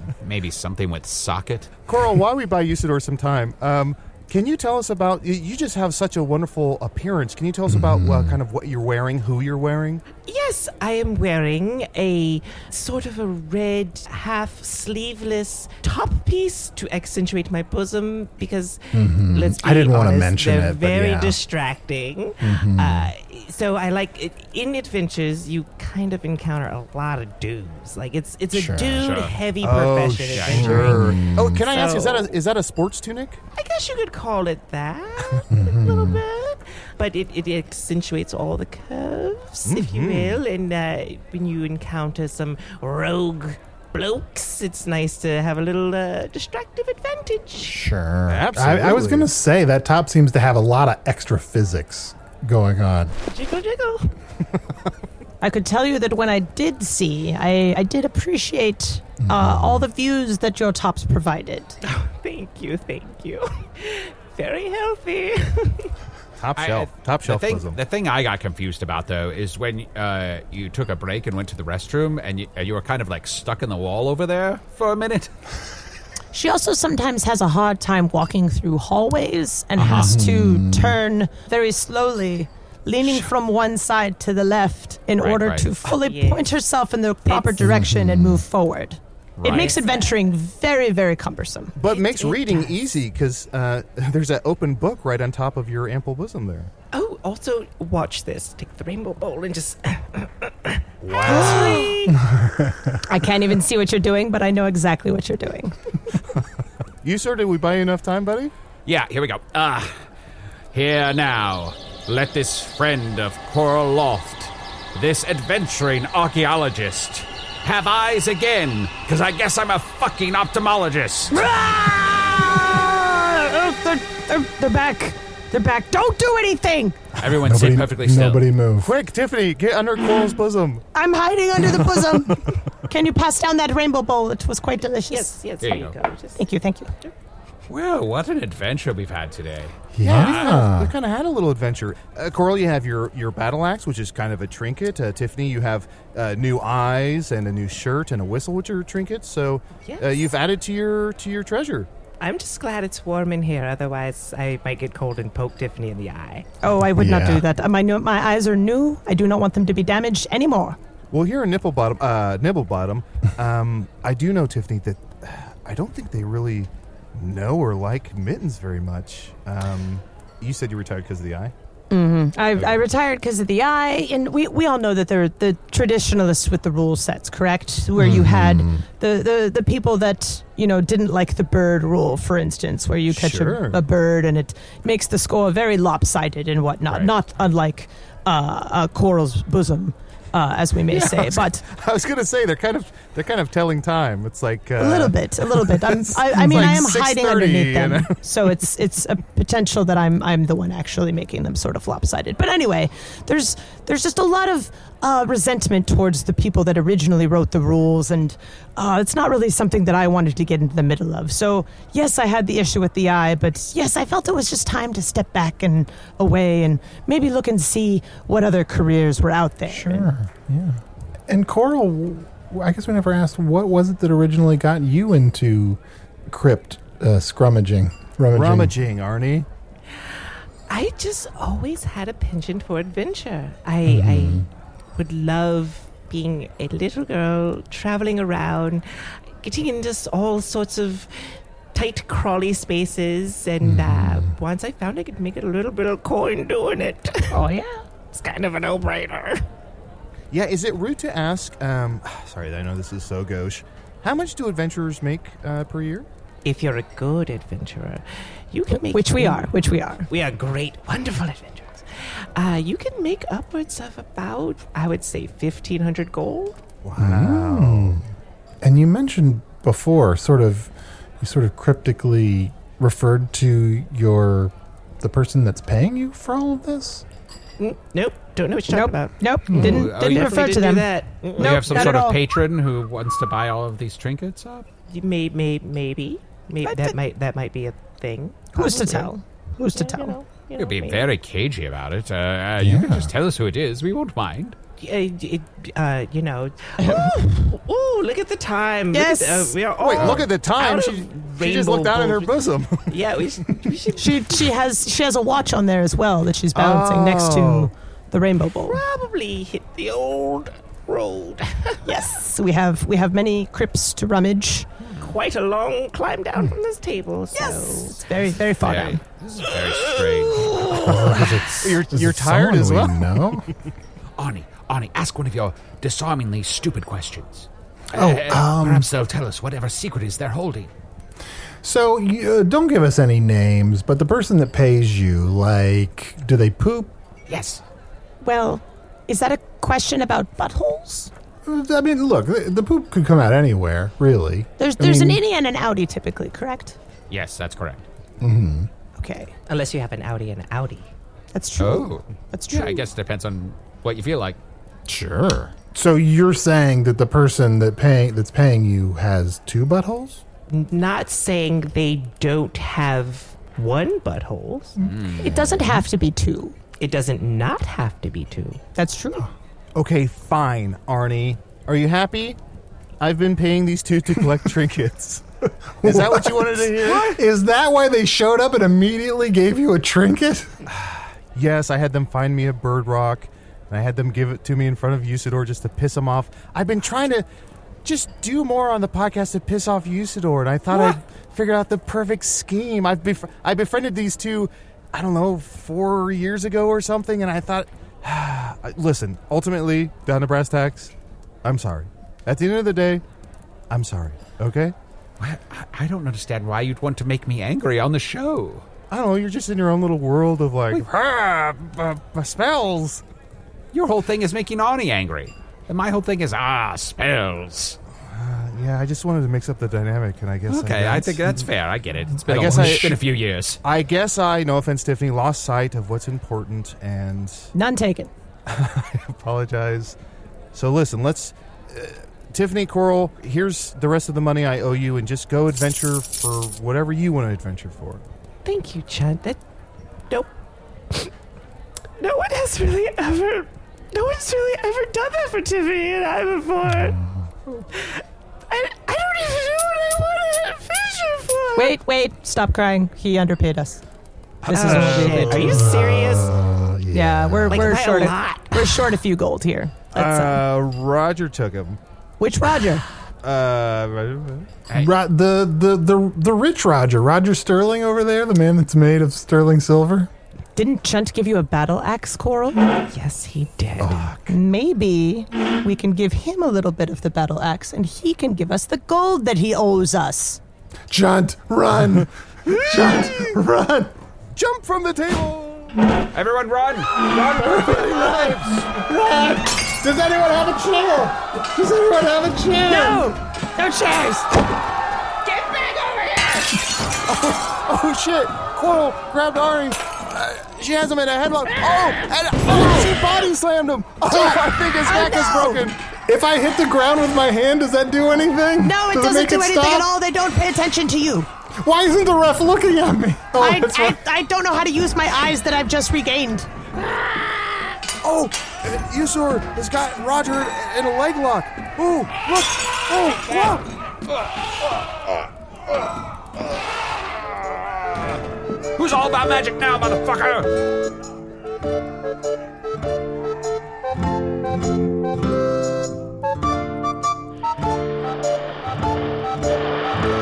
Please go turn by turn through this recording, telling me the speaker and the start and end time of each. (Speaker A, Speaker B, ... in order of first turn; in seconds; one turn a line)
Speaker A: 0.2-1.7
Speaker B: 1.9-10.0
Speaker C: 7.7-8.4
Speaker D: 10.2-32.4
Speaker C: 18.9-21.4
Speaker C: 22.4-23.1
Speaker C: 28.5-29.1
Speaker A: 28.9-29.4
Speaker B: 29.6-33.4
Speaker A: 30.3-30.6
Speaker C: 30.5-31.6
Speaker D: 33.5-47.8
Speaker C: 35.5-36.2
Speaker B: 39.7-40.4
Speaker C: 47.6-53.1
Speaker B: 48.3-49.3
Speaker D: 53.3-54.1
Speaker E: 55.4-61.8
Speaker C: 59.2-59.9
Speaker D: 61.8-65.9
Speaker B: 66.4-67.8
Speaker A: 66.5-75.3
Speaker E: 76.3-91.7
Speaker A: 79.8-80.1
Speaker C: 79.9-81.0
Speaker A: 85.2-85.7
Speaker D: 85.8-86.6
Speaker D: 87.3-87.6
Speaker C: 87.6-88.4
Speaker A: 89.4-89.8
Speaker D: 89.4-90.2
Speaker B: 91.8-96.7
Speaker D: 91.8-92.7
Speaker D: 96.9-102.2
Speaker A: 101.0-101.7
Speaker B: 101.3-101.7
Speaker E: 101.3-102.0
Speaker C: 102.2-103.0
Speaker E: 103.0-105.7
Speaker B: 107.0-108.5
Speaker A: 108.8-109.9
Speaker A: 110.7-121.4
Speaker E: 121.3-127.0
Speaker A: 127.2-128.5
Speaker C: 127.3-128.9
Speaker B: 128.8-130.8
Speaker E: 130.9-135.3
Speaker D: 135.1-136.4
Speaker A: 135.6-135.9
Speaker E: 136.4-136.9
Speaker A: 137.7-140.3
Speaker C: 139.9-140.9
Speaker B: 140.0-151.9
Speaker D: 149.8-150.2
Speaker D: 152.2-156.5
Speaker E: 156.6-160.8
Speaker C: 157.0-157.4
Speaker B: 161.1-171.5
Speaker E: 171.9-191.6
Speaker C: 177.9-178.8
Speaker B: 183.1-183.8
Speaker B: 190.9-198.2
Speaker E: 194.8-220.1
Speaker C: 219.7-228.8
Speaker B: 228.3-229.5
Speaker D: 230.7-238.8
Speaker C: 233.8-234.5
Speaker D: 239.4-241.1
Speaker D: 241.7-247.5
Speaker C: 243.6-244.3
Speaker E: 247.3-247.7
Speaker D: 248.1-249.4
Speaker B: 250.3-256.1
Speaker D: 256.4-259.5
Speaker E: 258.9-260.1
Speaker D: 260.1-266.6
Speaker B: 266.8-268.0
Speaker C: 267.0-268.0
Speaker C: 268.6-277.0
Speaker D: 277.6-281.9
Speaker E: 278.7-282.2
Speaker A: 279.5-280.6
Speaker A: 281.4-284.6
Speaker D: 284.9-289.1
Speaker E: 286.6-286.9
Speaker E: 288.5-290.1
Speaker D: 289.6-291.1
Speaker A: 290.6-294.6
Speaker C: 292.6-293.1
Speaker D: 294.8-304.4
Speaker E: 298.9-299.5
Speaker B: 299.8-302.9
Speaker E: 303.9-308.8
Speaker B: 306.5-307.7
Speaker D: 308.6-311.9
Speaker E: 311.8-314.7
Speaker A: 314.8-315.1
Speaker D: 315.0-318.0
Speaker E: 317.3-319.0
Speaker A: 318.6-320.6
Speaker D: 319.7-321.0
Speaker B: 320.8-323.1
Speaker C: 320.8-323.5
Speaker A: 324.2-330.7
Speaker C: 327.9-328.9
Speaker C: 331.6-336.9
Speaker A: 337.3-337.6
Speaker E: 338.2-341.1
Speaker C: 341.4-345.2
Speaker E: 344.6-346.8
Speaker A: 347.1-347.8
Speaker C: 348.2-348.7
Speaker E: 349.0-349.3
Speaker D: 349.5-350.9
Speaker E: 351.3-352.8
Speaker A: 351.6-354.4
Speaker C: 354.9-360.2
Speaker D: 360.5-364.8
Speaker A: 364.8-365.5
Speaker E: 365.2-366.5
Speaker D: 366.8-368.6
Speaker E: 368.8-369.3
Speaker B: 369.8-372.4
Speaker B: 373.0-375.2
Speaker C: 375.8-380.5
Speaker B: 375.8-377.2
Speaker B: 380.7-387.2
Speaker B: 387.8-400.9
Speaker B: 401.4-403.0
Speaker B: 403.7-404.7
Speaker A: 405.2-408.6
Speaker B: 408.9-413.0
Speaker A: 413.7-417.8
Speaker B: 418.1-421.4
Speaker A: 420.5-423.6
Speaker B: 422.2-423.1
Speaker C: 422.4-422.9
Speaker B: 423.6-427.5
Speaker E: 427.5-428.1
Speaker B: 428.5-429.9
Speaker B: 430.5-438.0
Speaker D: 438.4-439.4
Speaker D: 442.0-447.0
Speaker C: 446.8-447.1
Speaker D: 447.7-451.8
Speaker E: 451.6-453.8
Speaker B: 454.4-455.7
Speaker D: 454.5-456.4
Speaker E: 454.6-455.7
Speaker A: 454.7-455.3
Speaker C: 455.4-457.7
Speaker E: 456.9-460.4
Speaker D: 457.5-458.9
Speaker B: 459.9-461.8
Speaker E: 462.2-462.8
Speaker B: 463.2-464.7
Speaker C: 464.7-470.1
Speaker E: 470.6-472.6
Speaker D: 472.8-474.2
Speaker C: 473.8-474.1
Speaker E: 474.3-480.4
Speaker C: 480.9-483.9
Speaker B: 484.3-485.7
Speaker A: 486.1-488.5
Speaker C: 487.2-493.1
Speaker E: 492.6-494.3
Speaker E: 495.3-496.4
Speaker B: 497.1-505.8
Speaker E: 502.5-502.9
Speaker C: 504.0-504.4
Speaker E: 504.8-505.6
Speaker C: 506.1-509.9
Speaker E: 508.6-511.3
Speaker C: 511.6-514.0
Speaker E: 513.3-516.5
Speaker B: 518.0-523.6
Speaker A: 528.8-530.5